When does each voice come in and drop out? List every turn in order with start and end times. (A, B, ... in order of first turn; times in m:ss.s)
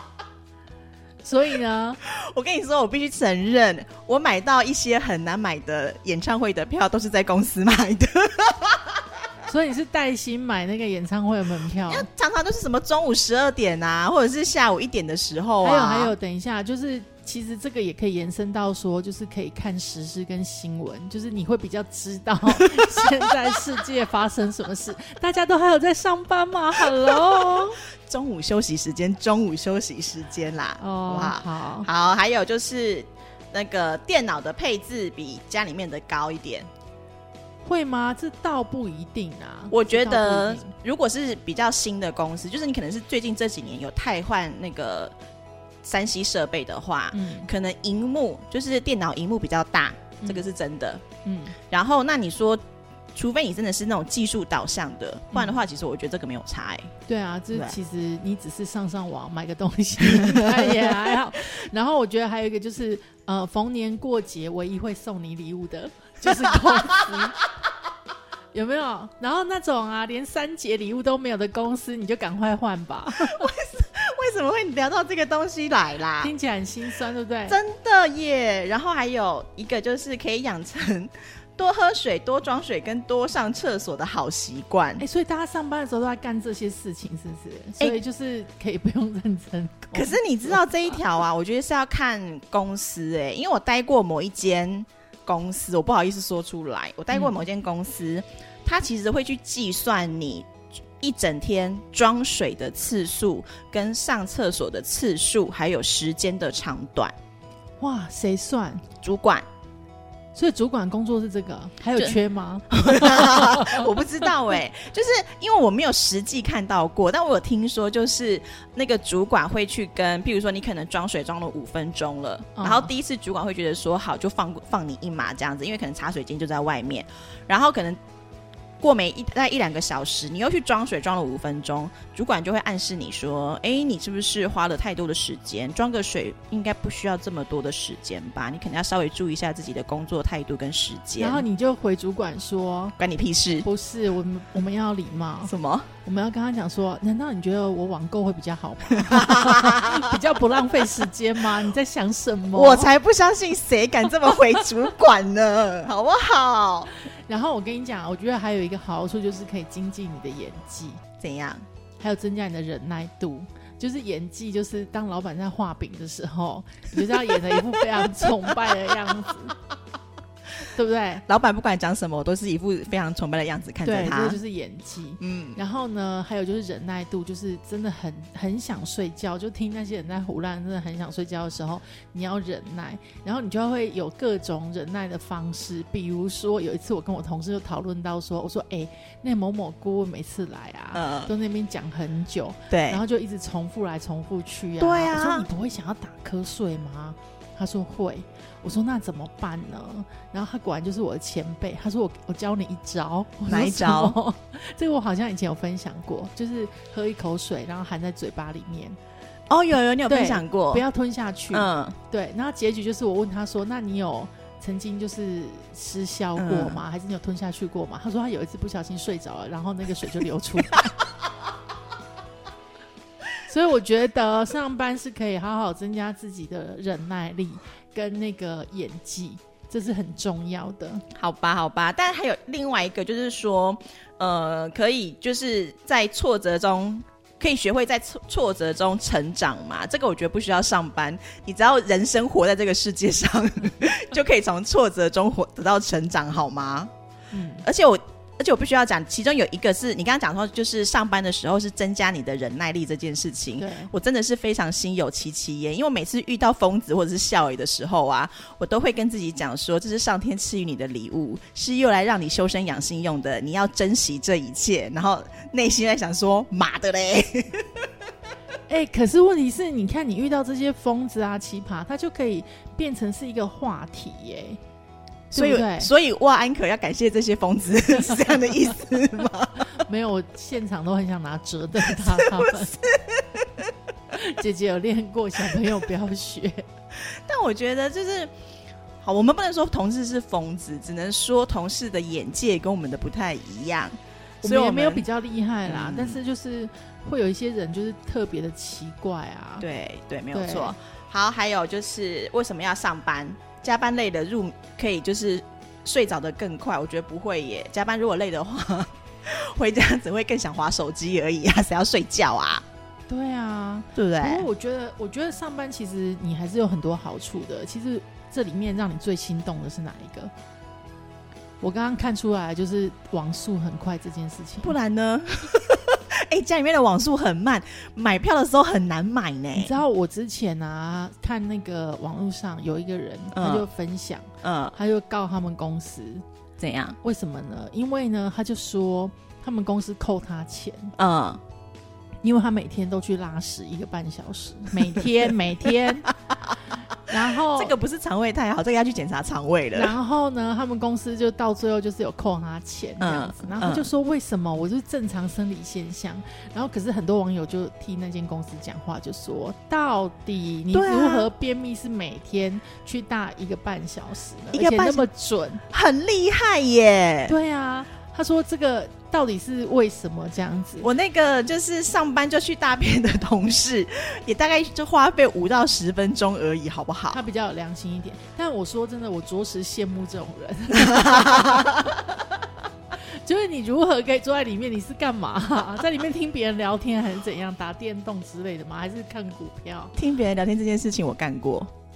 0:01.2-0:02.0 A
0:02.0-0:08.9 B
0:09.5-0:12.1 A
0:11.9-0:16.1 B
0:15.6-0:27.8 A
0:28.1-0:36.7 B
0:30.8-0:31.9 A
0:37.6-0:40.7 A
0:39.7-0:45.1 B
0:45.8-0:51.0 B
0:47.1-0:47.5 A
0:51.2-0:51.6 A
0:51.7-0:52.6 B
0:53.1-0:56.9 B
0:55.3-0:55.6 A
0:57.1-1:07.4 A
1:08.5-1:13.5 A
1:13.2-1:16.3 B
1:16.2-1:17.6 A
1:17.5-1:25.0 B
1:25.0-1:30.6 A
1:29.9-1:40.5 B
1:37.1-1:37.4 A
1:41.0-1:47.1 B
1:47.8-1:48.9 A
1:49.0-1:49.4 B
1:50.4-1:53.9 A
1:52.7-2:08.0 B
2:02.6-2:02.9 A
2:08.8-2:21.4 B
2:21.2-2:23.0 A
2:23.0-2:23.7 B
2:23.6-2:25.5 A
2:25.4-2:25.9 B
2:26.0-2:32.9 A
2:29.0-2:30.0 B
2:32.5-2:37.0 B
2:37.3-2:41.0 A
2:41.2-2:41.6 B
2:42.0-2:49.6 A
2:50.7-2:51.2 A
2:51.3-2:54.4 B
2:53.8-3:29.0 A
2:55.2-2:55.6 B
3:10.9-3:11.3 B
3:12.7-3:13.0 B
3:14.8-3:15.5 B
3:23.5-3:24.2 B
3:29.5-3:30.8 B
3:30.1-3:41.0 A
3:31.5-3:32.0 B
3:36.4-3:36.8 B
3:43.5-3:51.0 A
3:51.1-4:06.9 B
4:07.3-4:07.7 A
4:07.6-4:27.8 B
4:13.6-4:13.9 A
4:28.7-4:34.6 A
4:35.3-4:39.8 B
4:35.3-4:35.9 A
4:39.8-4:42.8 A
4:42.2-4:43.5 B
4:44.1-4:46.6 A
4:47.3-4:48.3 B
4:49.0-4:55.0 B
4:54.4-4:59.6 A
4:55.7-4:56.2 B
4:59.6-5:12.6 B
5:00.3-5:00.8 A
5:13.1-5:20.3 A
5:14.0-5:14.5 B
5:21.6-5:24.8 A
5:24.6-5:29.8 B
5:29.6-5:36.2 A
5:33.3-5:33.7 B
5:34.4-5:34.8 B
5:36.6-5:37.0 B
5:37.0-5:41.0 A
5:41.0-5:41.4 B
5:42.2-5:46.1 A
5:47.0-5:47.8 A
5:47.5-5:50.0 B
5:49.7-6:05.6 A
5:53.0-5:53.9 B
6:00.7-6:01.3 B
6:04.5-6:05.1 B
6:05.7-6:07.4 B
6:07.3-6:10.9 A
6:10.8-6:17.2 B
6:17.1-6:21.9 A
6:21.0-6:21.7 B
6:23.2-6:29.9 A
6:30.0-6:31.7 B